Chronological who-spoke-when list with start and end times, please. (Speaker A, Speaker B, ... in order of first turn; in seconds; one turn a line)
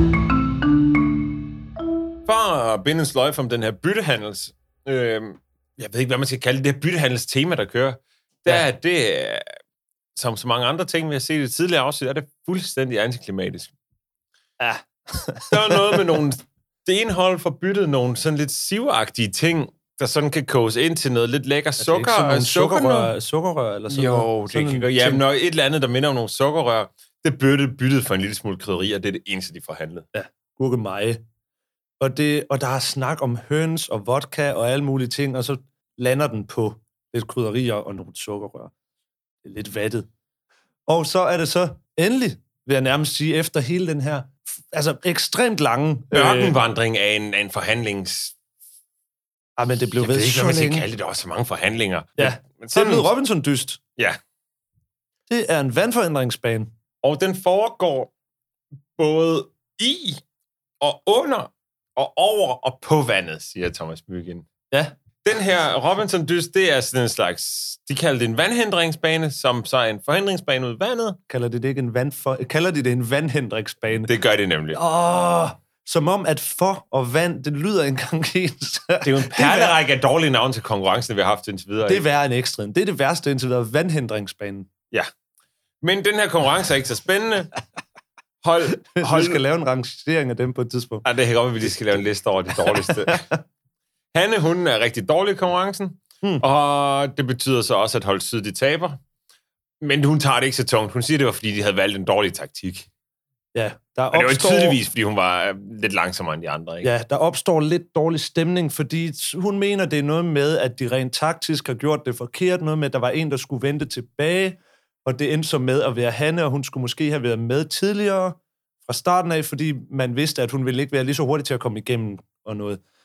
Speaker A: 2.3-9.5
Speaker A: 10.2-13.7
Speaker B: 14.6-16.1
Speaker A: 15.5-23.1
Speaker B: 21.8-25.2
Speaker A: 23.9-30.1
Speaker B: 30.1-31.2
Speaker B: 32.0-38.7
Speaker B: 39.4-40.1
Speaker B: 40.9-46.6
Speaker A: 46.1-48.4
Speaker B: 49.6-50.9
Speaker A: 50.0-53.1
Speaker B: 52.2-53.8
Speaker B: 55.3-56.7
Speaker A: 57.0-58.1
Speaker A: 59.0-60.2
Speaker A: 60.8-64.5
Speaker A: 65.2-71.2
Speaker B: 71.3-74.1
Speaker A: 74.0-74.8
Speaker B: 74.7-79.8
Speaker A: 79.0-82.1
Speaker B: 81.9-84.7
Speaker A: 85.8-87.5
Speaker A: 88.4-89.4
Speaker B: 88.9-91.1
Speaker A: 91.0-93.2
Speaker B: 91.6-92.0
Speaker B: 92.5-93.4
Speaker A: 94.1-99.0
Speaker A: 99.8-102.9
Speaker B: 103.5-104.8
Speaker A: 104.1-106.9
Speaker B: 106.8-122.8